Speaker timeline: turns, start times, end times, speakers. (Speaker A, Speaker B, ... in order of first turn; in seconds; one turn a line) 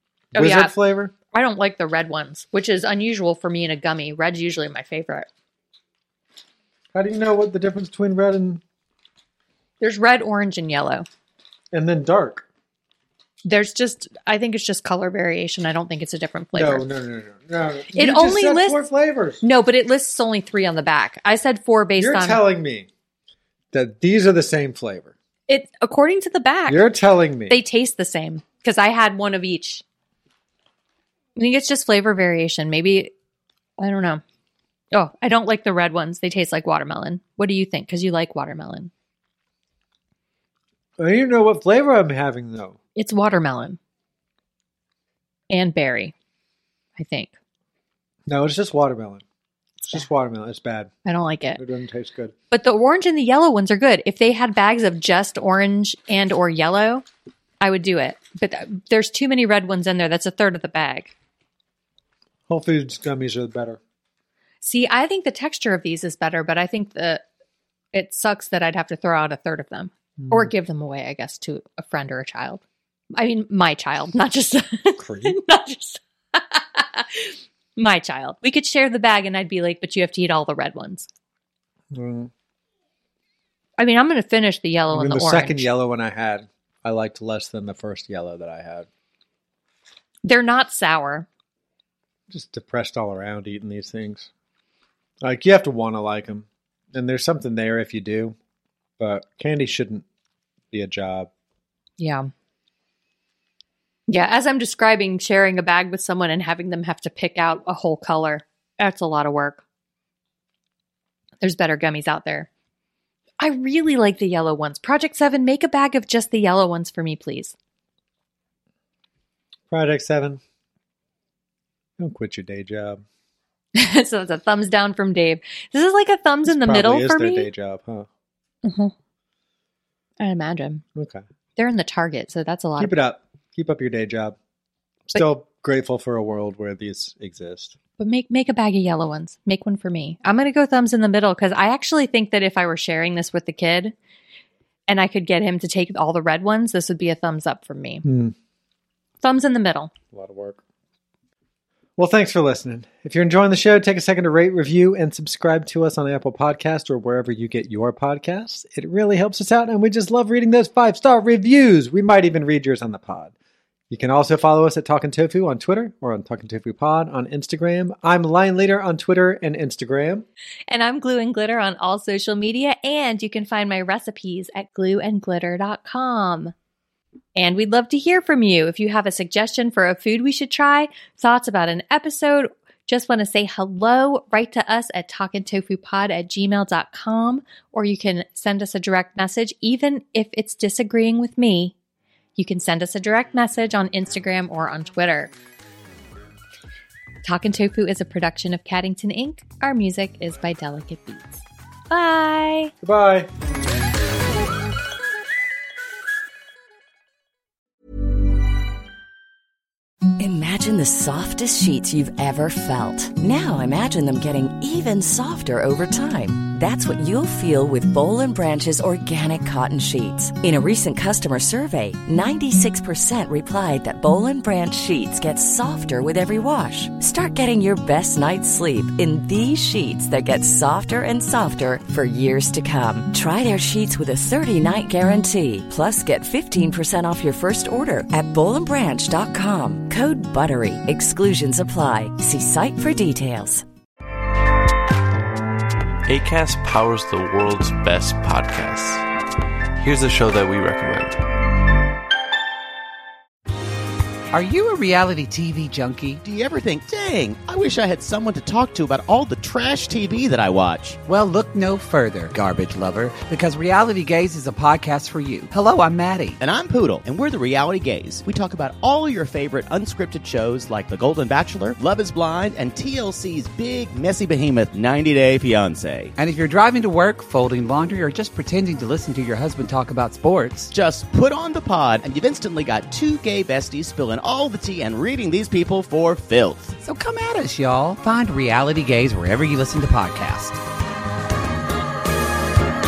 Speaker A: 0.3-1.1
Speaker B: 0.3-0.7
Speaker B: 1.3-5.3
Speaker A: 6.9-8.6
Speaker B: 9.8-11.1
Speaker A: 11.7-12.5
Speaker B: 13.4-16.9
Speaker A: 16.5-19.4
Speaker B: 17.9-18.9
Speaker B: 19.4-22.4
Speaker A: 22.0-22.9
Speaker A: 23.7-25.1
Speaker B: 25.5-26.8
Speaker A: 26.7-27.6
Speaker B: 27.5-29.8
Speaker B: 31.4-33.1
Speaker B: 33.8-34.2
Speaker B: 34.9-38.9
Speaker A: 41.0-42.8
Speaker B: 43.0-43.8
Speaker B: 45.5-46.1
Speaker B: 47.0-47.3
Speaker A: 48.3-49.2
Speaker A: 49.9-50.9
Speaker B: 51.0-51.6
Speaker A: 51.6-52.4
Speaker B: 52.5-57.0
Speaker B: 57.6-61.1
Speaker A: 62.5-63.8
Speaker B: 64.6-67.2
Speaker B: 67.9-72.6
Speaker A: 70.2-70.5
Speaker B: 73.1-81.1
Speaker A: 75.0-75.4
Speaker A: 81.9-82.3
Speaker B: 83.8-85.7
Speaker A: 84.9-88.9
Speaker B: 90.2-91.3
Speaker A: 92.3-94.3
Speaker A: 95.2-98.4
Speaker A: 99.0-100.1
Speaker A: 100.7-101.3
Speaker B: 102.0-102.3
Speaker B: 104.1-109.6
Speaker B: 111.4-112.5
Speaker B: 113.4-117.5
Speaker A: 119.7-120.4
Speaker A: 122.0-123.0
Speaker B: 123.8-127.5
Speaker A: 126.5-128.1
Speaker B: 128.6-128.9
Speaker B: 130.2-130.8
Speaker A: 130.9-131.2
Speaker B: 131.6-133.0
Speaker A: 132.8-134.4
Speaker A: 135.1-137.8
Speaker B: 138.0-143.9
Speaker B: 144.9-148.0
Speaker A: 148.0-148.3
Speaker B: 149.2-149.9
Speaker A: 150.1-150.6
Speaker A: 152.0-163.3
Speaker A: 163.9-170.3
Speaker B: 170.7-176.5
Speaker B: 177.3-191.8
Speaker B: 192.4-195.3
Speaker B: 197.2-202.7
Speaker A: 202.8-203.3
Speaker C: 210.2-243.7
Speaker D: 246.1-249.1
Speaker D: 249.8-251.2
Speaker E: 254.3-256.2
Speaker F: 256.2-261.0
Speaker E: 261.1-266.4
Speaker F: 266.4-276.1
Speaker E: 276.2-280.7
Speaker F: 280.7-286.8
Speaker E: 286.8-290.6